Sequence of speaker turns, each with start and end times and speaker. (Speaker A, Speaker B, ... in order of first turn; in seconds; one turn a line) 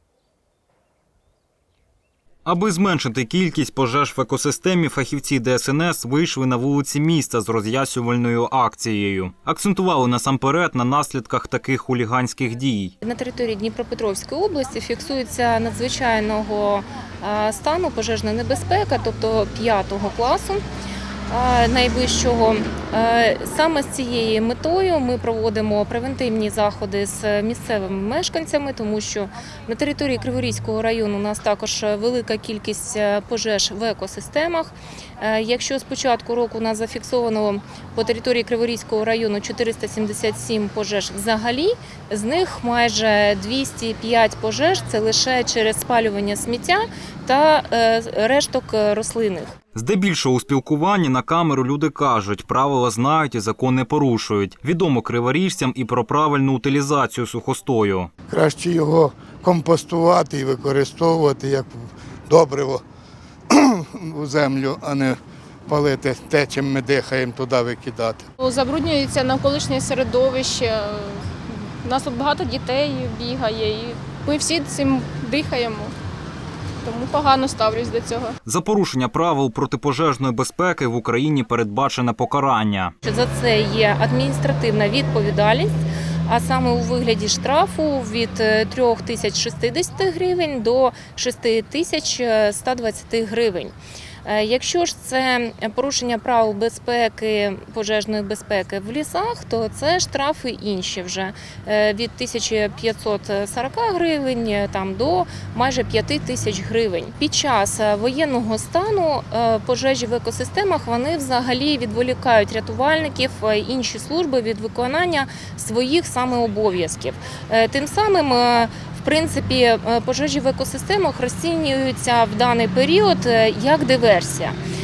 Speaker A: 2.4-12.9
Speaker B: 13.0-20.6
Speaker B: 21.3-49.5
Speaker A: 49.7-58.1
Speaker C: 58.3-62.8
Speaker C: 63.5-68.3
Speaker D: 68.4-75.9
Speaker D: 76.8-78.3
Speaker A: 78.5-82.9
Speaker B: 83.0-93.7
Speaker B: 94.2-124.6